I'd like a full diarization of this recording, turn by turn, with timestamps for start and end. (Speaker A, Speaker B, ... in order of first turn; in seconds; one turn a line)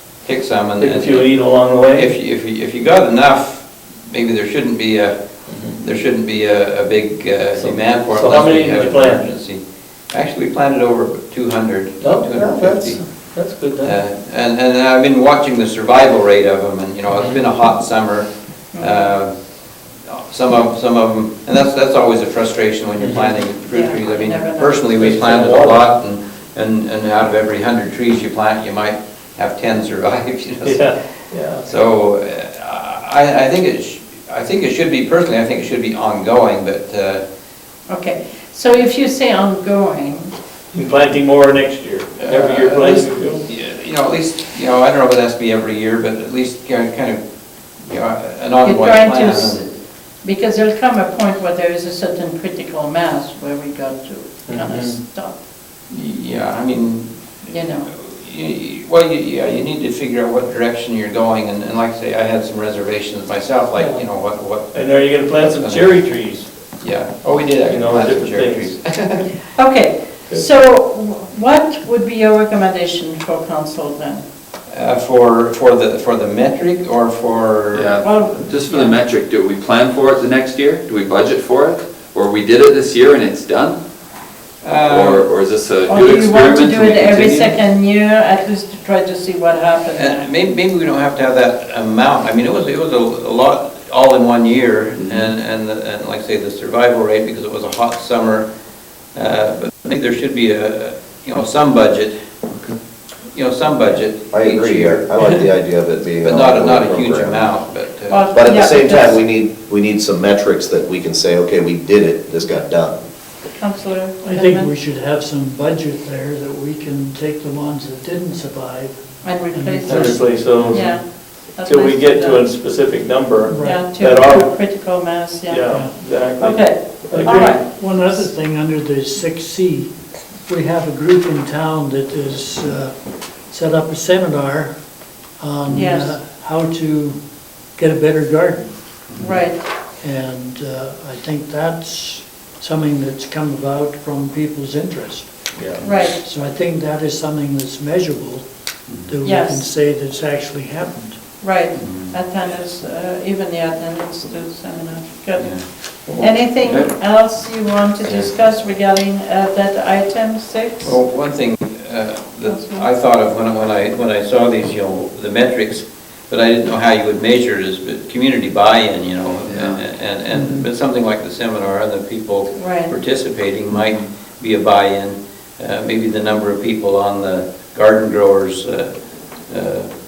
Speaker A: 0.2-1.3
Speaker B: 0.8-2.1
Speaker A: 1.9-5.2
Speaker B: 5.5-5.8
Speaker A: 5.8-13.0
Speaker B: 7.6-9.2
Speaker B: 12.0-13.9
Speaker A: 13.8-19.3
Speaker C: 18.7-19.1
Speaker A: 20.1-30.9
Speaker B: 23.0-23.4
Speaker C: 23.7-25.1
Speaker B: 25.0-25.8
Speaker B: 30.6-31.7
Speaker A: 31.6-37.2
Speaker C: 37.9-40.3
Speaker B: 40.7-43.4
Speaker A: 42.2-47.2
Speaker A: 47.8-49.6
Speaker C: 48.6-49.7
Speaker C: 50.2-55.4
Speaker B: 54.5-55.0
Speaker A: 55.9-57.1
Speaker C: 57.5-57.9
Speaker A: 57.9-66.0
Speaker B: 63.8-64.0
Speaker B: 64.7-66.5
Speaker A: 66.8-69.3
Speaker B: 67.7-68.7
Speaker C: 69.5-74.2
Speaker A: 74.7-78.0
Speaker D: 77.7-83.8
Speaker C: 78.0-79.0
Speaker A: 84.6-85.2
Speaker D: 84.8-87.6
Speaker C: 85.8-90.3
Speaker A: 89.9-98.5
Speaker D: 95.0-95.3
Speaker A: 99.1-102.1
Speaker A: 103.3-105.3
Speaker E: 104.3-107.5
Speaker A: 106.2-108.3
Speaker C: 108.1-109.2
Speaker E: 108.3-113.0
Speaker C: 113.5-114.7
Speaker F: 114.2-120.8
Speaker C: 119.2-122.5
Speaker B: 119.8-121.0
Speaker B: 121.6-124.4
Speaker F: 123.4-124.4
Speaker C: 123.6-125.8
Speaker B: 125.5-127.6
Speaker F: 125.7-126.0
Speaker C: 126.4-127.6
Speaker F: 127.2-129.9
Speaker F: 130.5-132.9
Speaker F: 133.5-134.7
Speaker F: 135.4-137.2
Speaker C: 135.7-136.2
Speaker F: 137.8-138.7
Speaker C: 139.2-139.6
Speaker F: 140.0-145.4
Speaker B: 145.6-145.9
Speaker C: 145.8-146.2
Speaker F: 146.1-148.4
Speaker F: 149.1-151.2
Speaker C: 149.2-149.7
Speaker C: 151.4-155.5
Speaker A: 151.8-152.1
Speaker D: 156.1-156.9
Speaker C: 156.1-161.0
Speaker A: 160.8-178.9
Speaker C: 162.4-162.9
Speaker D: 169.4-169.8
Speaker F: 170.3-170.6
Speaker C: 172.6-172.9
Speaker A: 179.5-179.9